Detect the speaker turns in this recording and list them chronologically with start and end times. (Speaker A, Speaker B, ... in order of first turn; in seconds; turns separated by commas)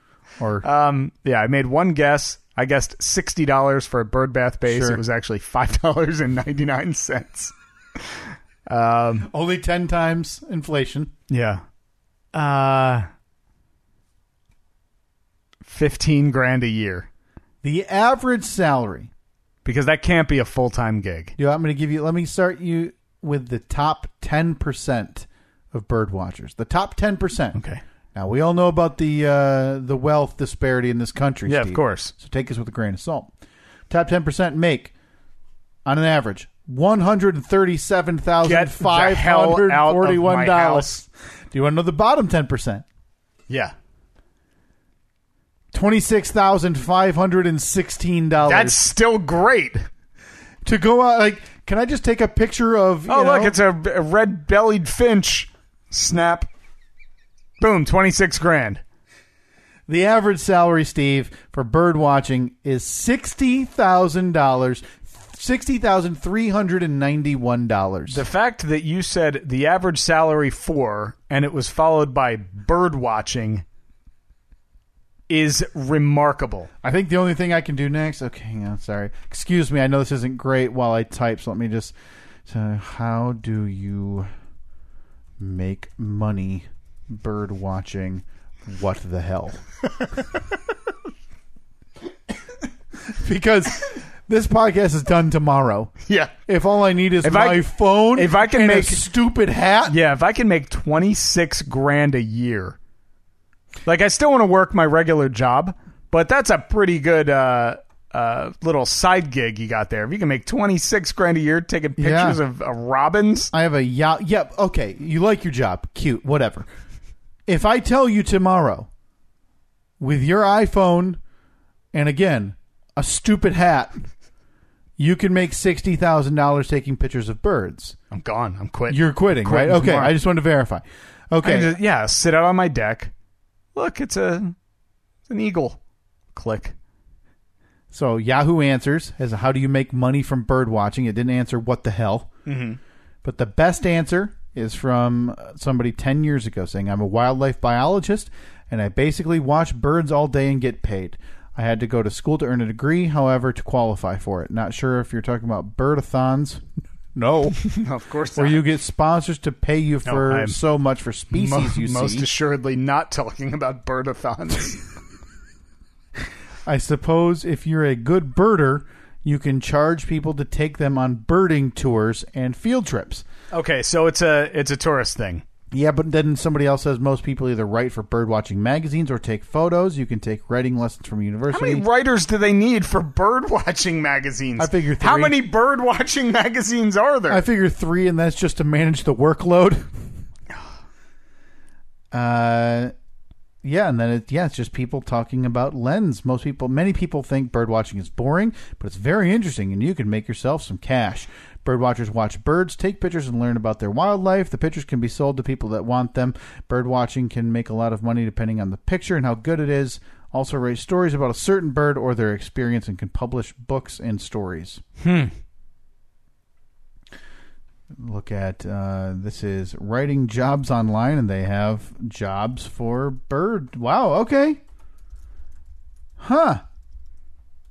Speaker A: 0.4-0.7, Speaker B: 0.6-9.3, Speaker A: 4.7-5.0, Speaker A: 9.3-11.1, Speaker B: 11.3-11.6, Speaker B: 12.3-13.1, Speaker B: 15.7-17.1, Speaker A: 17.6-19.1, Speaker B: 19.6-21.4, Speaker A: 21.4-27.6, Speaker B: 27.6-27.8, Speaker A: 28.1-33.3, Speaker B: 31.5-32.1, Speaker A: 33.9-34.9, Speaker A: 35.9-42.9, Speaker B: 38.4-40.9, Speaker B: 43.5-43.7, Speaker A: 45.7-48.8, Speaker B: 48.4-49.9, Speaker A: 50.6-53.6, Speaker B: 53.1-56.5, Speaker B: 57.6-58.8, Speaker A: 59.9-68.2, Speaker B: 68.1-73.6, Speaker B: 75.3-76.7, Speaker A: 76.8-82.0, Speaker A: 82.5-84.3, Speaker A: 85.4-89.6, Speaker A: 93.1-95.9, Speaker B: 96.1-96.3, Speaker A: 96.5-100.0, Speaker B: 97.2-99.1, Speaker B: 99.9-102.8, Speaker B: 103.8-113.5, Speaker A: 112.0-112.4, Speaker A: 113.5-116.7, Speaker A: 117.5-118.9, Speaker A: 120.0-121.2, Speaker A: 121.9-124.0, Speaker A: 125.0-128.0, Speaker B: 128.1-130.2, Speaker A: 128.9-131.8, Speaker B: 131.4-133.1, Speaker B: 133.8-134.6, Speaker B: 135.3-135.8, Speaker B: 136.3-136.8, Speaker A: 137.9-142.3, Speaker B: 142.5-142.8, Speaker A: 143.2-156.6, Speaker A: 157.2-157.6, Speaker B: 157.6-158.6, Speaker A: 158.4-162.3, Speaker B: 160.1-160.6, Speaker B: 161.3-164.8, Speaker A: 166.7-173.2, Speaker B: 173.5-175.4, Speaker A: 175.7-181.8, Speaker B: 181.5-187.4, Speaker A: 184.6-185.4, Speaker A: 187.3-189.9, Speaker A: 192.1-192.9, Speaker A: 193.6-214.8, Speaker B: 215.0-215.3, Speaker A: 217.9-224.6, Speaker A: 226.2-226.6